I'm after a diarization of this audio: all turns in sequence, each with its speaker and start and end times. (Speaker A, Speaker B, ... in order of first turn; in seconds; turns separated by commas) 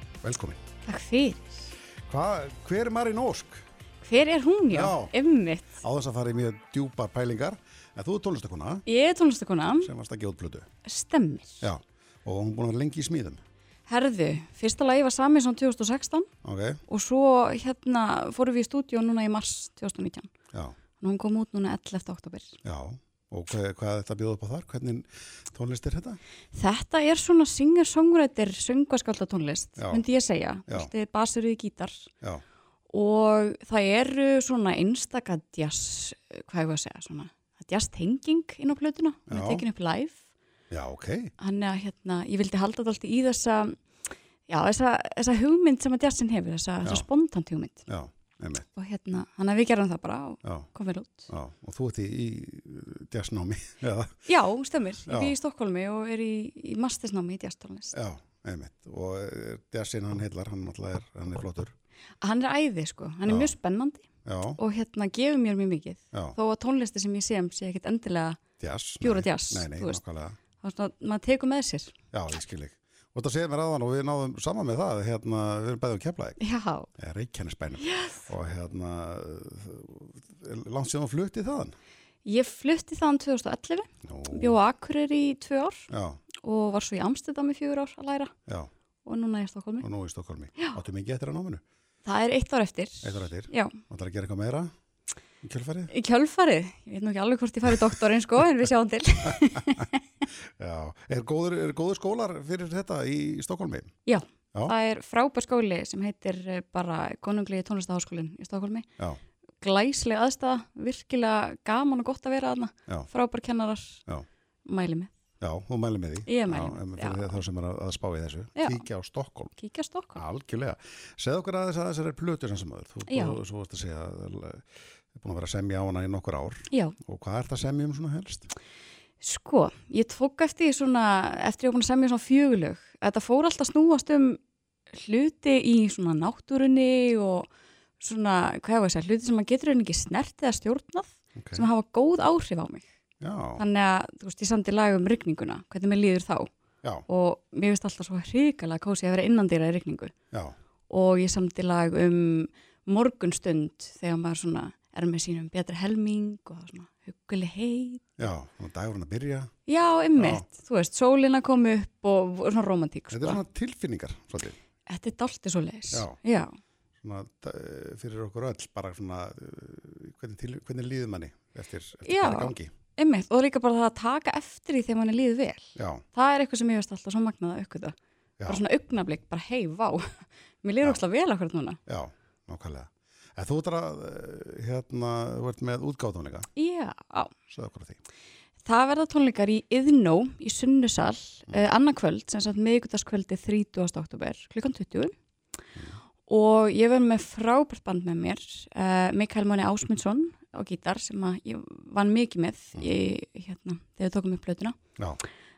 Speaker A: 0.2-0.6, Speaker B: 0.8-1.7, Speaker A: 2.1-3.6, Speaker B: 4.0-5.8, Speaker A: 4.7-5.1, Speaker A: 5.7-8.8, Speaker B: 8.9-9.9, Speaker A: 9.8-10.7, Speaker B: 10.8-11.7, Speaker A: 11.6-13.4, Speaker B: 13.9-16.3, Speaker A: 16.4-16.8, Speaker B: 16.9-20.3, Speaker B: 21.0-22.6, Speaker A: 22.6-26.2, Speaker B: 26.5-32.1, Speaker A: 29.8-30.0, Speaker B: 32.9-40.2, Speaker A: 39.3-39.6, Speaker A: 40.7-41.3, Speaker B: 41.4-43.8, Speaker B: 44.5-47.8, Speaker A: 47.9-48.7, Speaker B: 48.7-51.3, Speaker A: 50.4-50.7, Speaker A: 51.3-54.2, Speaker B: 54.2-57.9, Speaker A: 55.0-55.3, Speaker A: 57.9-61.7, Speaker B: 62.2-64.0, Speaker A: 63.3-63.5, Speaker A: 64.2-64.6, Speaker B: 64.6-68.4, Speaker A: 68.6-70.4, Speaker B: 69.0-70.0, Speaker B: 70.6-71.9, Speaker A: 72.1-76.4, Speaker B: 76.4-76.9, Speaker A: 76.9-81.8, Speaker B: 77.8-78.3, Speaker B: 82.2-85.9, Speaker A: 84.0-84.6, Speaker A: 85.9-86.2, Speaker B: 86.4-88.3, Speaker B: 89.0-89.8, Speaker A: 89.8-91.6, Speaker B: 92.0-93.8, Speaker A: 93.0-94.7, Speaker A: 95.4-95.9, Speaker B: 95.9-100.0, Speaker A: 100.6-103.9, Speaker B: 104.1-108.8, Speaker B: 109.6-114.0, Speaker B: 114.7-115.1, Speaker A: 115.4-119.5, Speaker B: 116.3-117.4, Speaker B: 118.6-118.8, Speaker B: 119.6-120.2, Speaker A: 120.2-128.5, Speaker B: 123.1-123.4, Speaker B: 126.7-127.0, Speaker B: 129.2-134.4, Speaker B: 134.9-137.5, Speaker B: 138.0-142.8, Speaker A: 141.3-141.6, Speaker A: 143.2-143.6, Speaker B: 143.6-146.5, Speaker B: 147.1-150.1, Speaker B: 150.9-158.1, Speaker A: 158.2-159.5, Speaker B: 159.7-163.4, Speaker A: 160.2-160.4, Speaker A: 163.1-164.6, Speaker B: 164.9-166.6, Speaker A: 165.9-166.2, Speaker A: 167.0-172.7, Speaker B: 172.0-181.8, Speaker A: 175.8-176.0, Speaker A: 181.9-186.5, Speaker B: 186.6-187.3, Speaker A: 187.5-188.0, Speaker B: 188.6-195.1, Speaker B: 196.3-204.8